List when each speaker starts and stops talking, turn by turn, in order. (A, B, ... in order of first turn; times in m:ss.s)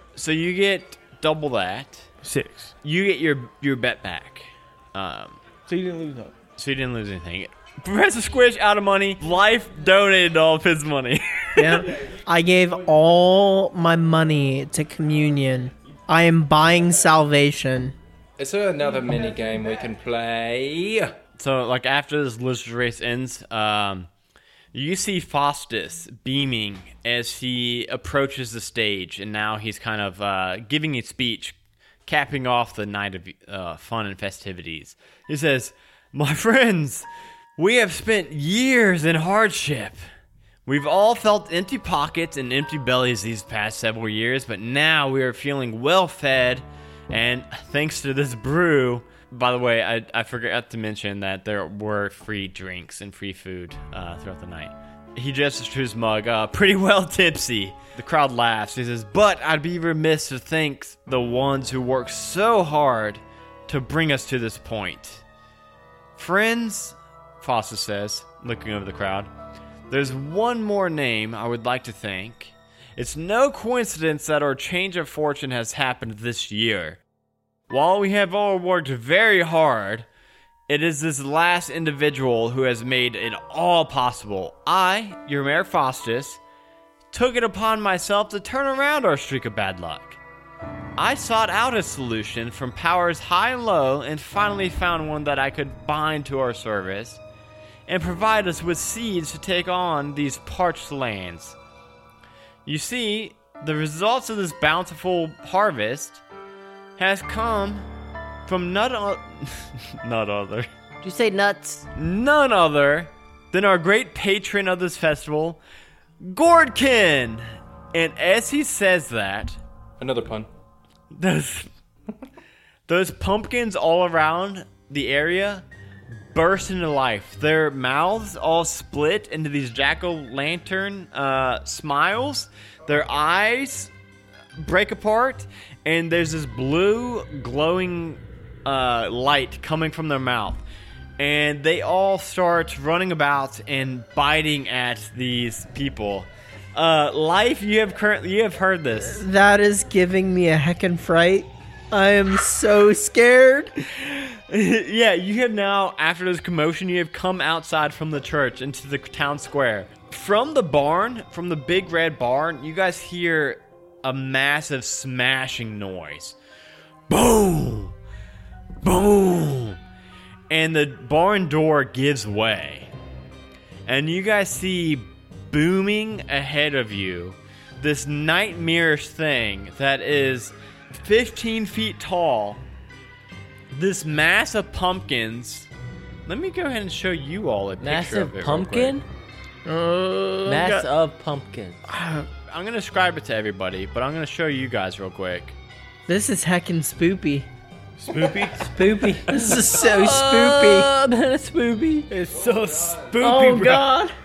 0:00.2-0:02.1 A
0:02.2-0:02.7 B
0:02.8-0:05.4 A
0:05.7-0:06.3 B
0:06.6-0:11.9 A
0:11.6-0:17.9 C
0:18.4-0:21.1 D
0:21.4-0:24.1 A
0:24.7-0:31.6 A
0:32.1-0:40.0 A
0:40.6-1:05.2 A
1:06.2-1:09.3 A
1:09.9-1:17.0 A
1:17.7-1:20.1 A
1:20.7-1:26.4 A
1:27.1-1:30.2 A
1:31.0-1:37.2 A
1:37.9-1:41.6 A
1:42.6-1:46.2 A
1:47.0-1:47.9 A
1:48.4-1:50.7 A
1:51.0-1:51.9 E
1:51.9-1:55.6 A
1:56.2-1:59.6 A
2:00.0-2:00.5 D
2:01.1-2:01.7 A
2:02.9-2:05.6 A
2:06.3-2:13.9 A
2:14.6-2:20.6 A
2:21.2-2:29.3 A
2:29.0-2:33.7 C
2:33.8-2:46.4 A
2:47.1-2:48.0 A
2:48.8-2:49.8 A
2:50.5-2:52.9 A
2:53.8-3:02.6 A
3:03.7-3:05.7 A
3:06.2-3:09.0 A
3:07.8-3:09.0 E
3:09.6-3:10.6 C
3:10.4-3:11.8 E
3:11.9-3:12.3 C
3:12.5-3:15.6 A
3:16.1-3:17.5 C
3:18.0-3:19.1 B
3:18.7-3:20.9 C
3:19.0-3:22.1 E
3:22.1-3:23.9 B
3:23.2-3:24.1 C